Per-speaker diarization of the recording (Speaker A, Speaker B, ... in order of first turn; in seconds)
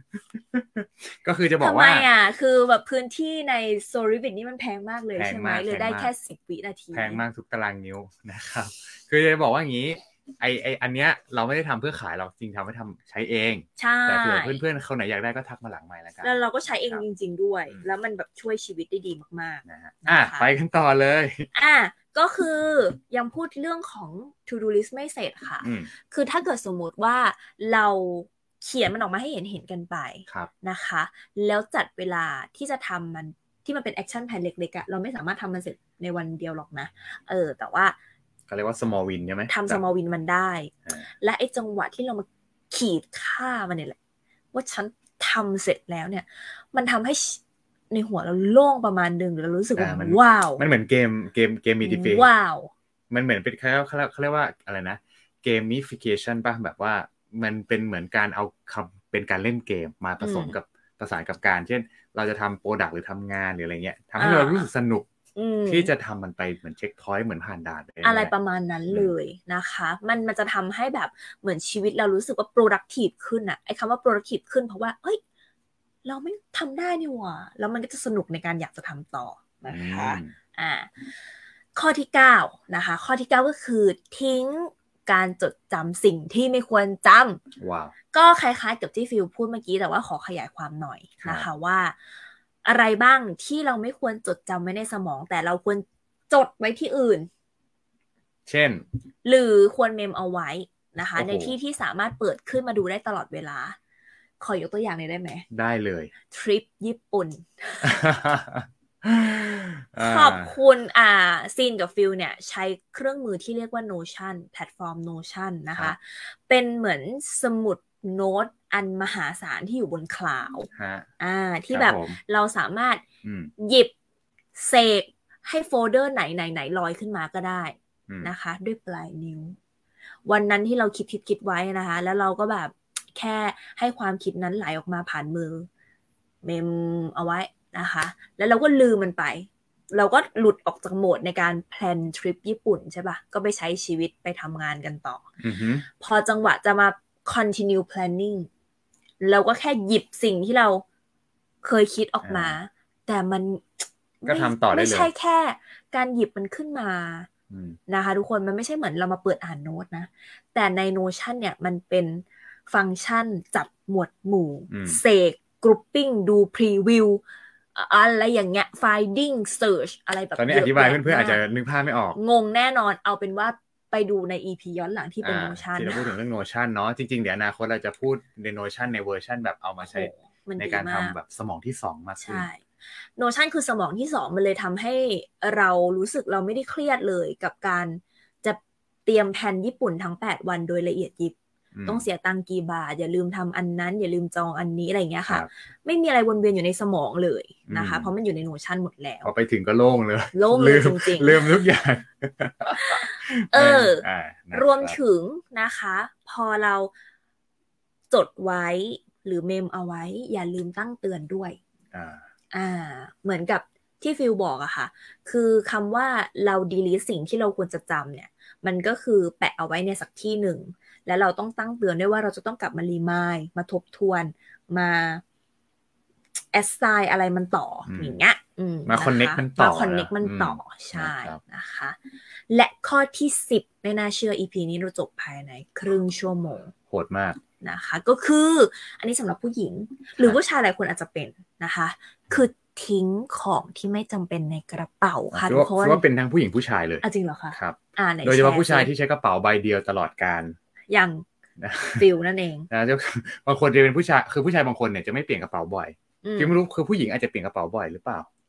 Speaker A: 0.1-2.1, 5.2-6.1, 6.9-17.0, 19.6-21.5, 25.6-25.9, 38.5-39.8, 49.8-52.3, 53.1-65.1, 65.7-68.3, 79.7-80.3, 87.6-87.9, 98.5-98.8, 101.1-101.5, 105.5-106.1, 107.8-110.5, 120.7-121.1, 121.7-122.2, 123.2-123.5, 145.4-145.8, 152.2-152.6, 154.2-155.1, 157.5-157.8, 164.7-165.0, 170.4-172.2, 175.2-182.5, 191.7-192.1, 197.7-198.1, 199.2-205.0, 211.9-212.2, 227.9-228.2, 228.9-231.4, 236.9-237.4, 245.3-247.0, 247.5-250.6, 251.6-252.1, 252.7-258.3
Speaker B: 1.6-7.2, 13.8-14.6, 16.2-20.5, 21.5-38.0, 39.5-44.0, 44.5-50.6, 51.8-52.7, 60.2-60.5, 64.2-64.7, 65.3-65.9, 68.0-75.2, 76.0-80.9, 81.7-87.4, 88.1-92.0, 92.6-97.3, 99.2-103.8, 104.4-105.5, 106.3-107.9, 110.0-120.7, 121.2-123.0, 123.6-123.9, 124.5-129.6, 130.3-135.7, 136.4-145.3, 145.9-148.5, 149.2-150.8, 151.6-157.3, 157.9-167.2, 167.7-171.4, 172.1-176.1, 179.8-181.1, 182.2-199.3, 200.3-201.4, 202.8-206.9, 208.1-211.6, 212.5-225.2, 226.5-232.0, 232.5-236.7, 237.6-246.0, 247.0-248.9, 250.9-251.2, 252.0-252.7, 256.2-256.6